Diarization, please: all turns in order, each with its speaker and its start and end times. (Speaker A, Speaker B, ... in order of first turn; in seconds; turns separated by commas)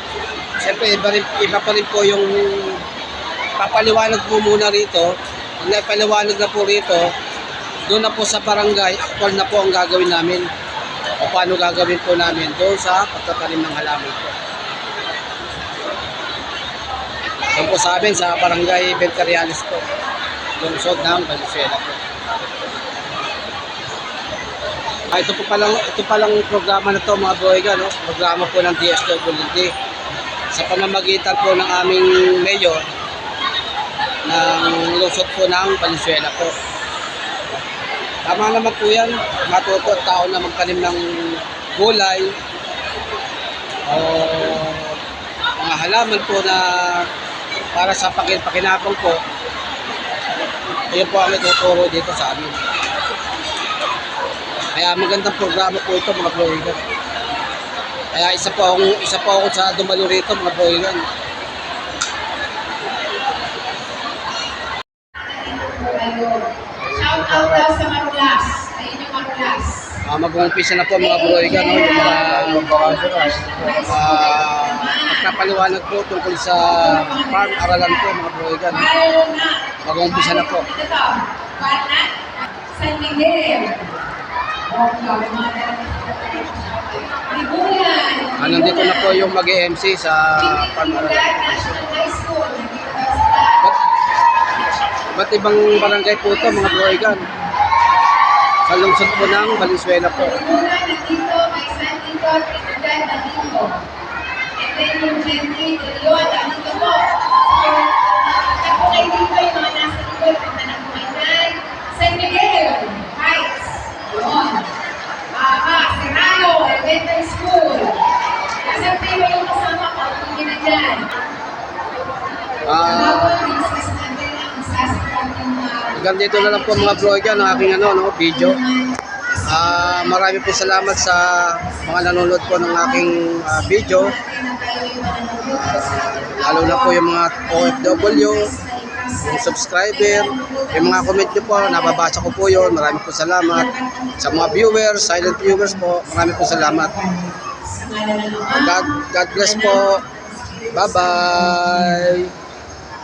Speaker A: 0.6-2.9, Speaker A: 3.6-7.1, Speaker A: 7.8-10.5, Speaker A: 11.2-14.4, Speaker A: 17.5-19.9, Speaker A: 20.6-22.0, Speaker A: 25.1-29.7, Speaker A: 30.5-32.9, Speaker A: 34.2-36.5, Speaker A: 38.2-42.4, Speaker A: 43.9-45.0, Speaker A: 45.6-47.1, Speaker A: 47.7-49.2, Speaker A: 50.9-52.6, Speaker A: 54.7-56.9, Speaker A: 58.1-61.1, Speaker B: 65.2-70.0, Speaker A: 66.9-67.6, Speaker A: 70.0-73.0, Speaker B: 71.0-75.6, Speaker A: 73.8-78.9, Speaker B: 76.7-78.1, Speaker B: 78.7-84.1, Speaker A: 79.8-80.7, Speaker B: 84.7-89.3, Speaker A: 88.4-91.9, Speaker B: 90.4-93.6, Speaker A: 95.1-97.3, Speaker B: 96.3-97.1, Speaker A: 98.7-100.5, Speaker B: 99.2-103.8, Speaker B: 104.6-114.7, Speaker B: 115.3-118.1, Speaker B: 118.6-121.2, Speaker A: 122.6-123.5, Speaker B: 122.9-151.6, Speaker A: 125.9-128.6, Speaker A: 129.4-134.2, Speaker A: 135.5-138.6, Speaker A: 139.2-147.0, Speaker A: 148.5-150.1, Speaker A: 150.7-152.3